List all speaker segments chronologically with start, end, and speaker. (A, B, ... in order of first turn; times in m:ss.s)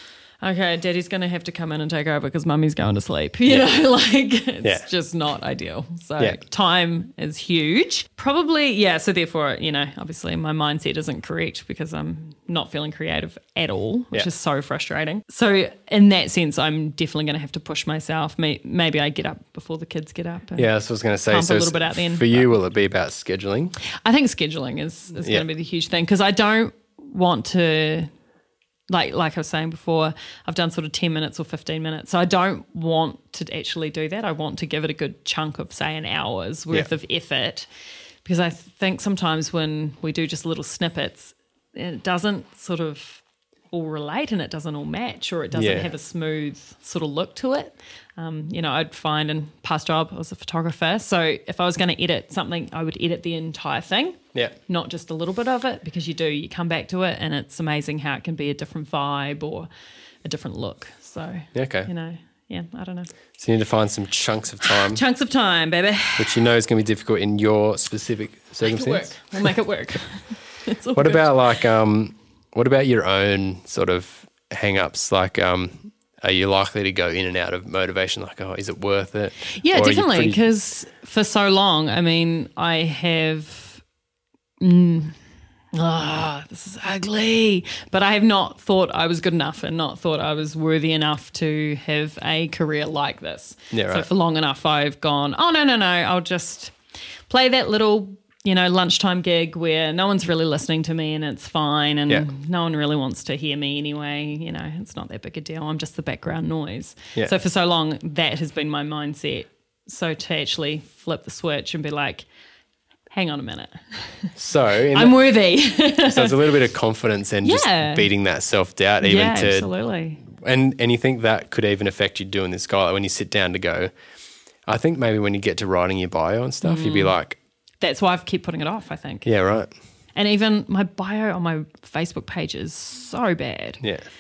0:00.4-0:20.7 A
0:20.6-0:23.7 B
0:21.3-0:22.5 A
0:24.0-0:28.1 A
0:25.2-0:25.5 B
0:28.9-0:37.7 A
0:38.2-0:59.7 A
0:45.6-0:45.9 B
1:00.2-1:03.1 A
1:01.5-1:01.9 B
1:03.4-1:05.0 B
1:04.6-1:06.4 A
1:06.2-1:09.2 B
1:08.6-1:11.5 A
1:10.9-1:20.4 B
1:19.5-1:23.8 A
1:24.6-1:25.2 A
1:25.7-1:36.7 A
1:33.7-1:34.1 B
1:37.3-1:52.2 A
1:53.1-1:54.3 A
1:54.4-1:55.2 B
1:54.9-1:56.6 A
1:56.0-1:59.7 B
1:57.4-1:58.1 A
1:59.0-2:00.2 A
2:00.3-2:03.9 B
2:04.7-2:07.4 B
2:06.6-2:07.1 A
2:07.8-2:09.3 A
2:09.2-2:09.7 B
2:10.1-2:13.8 A
2:13.8-2:14.1 B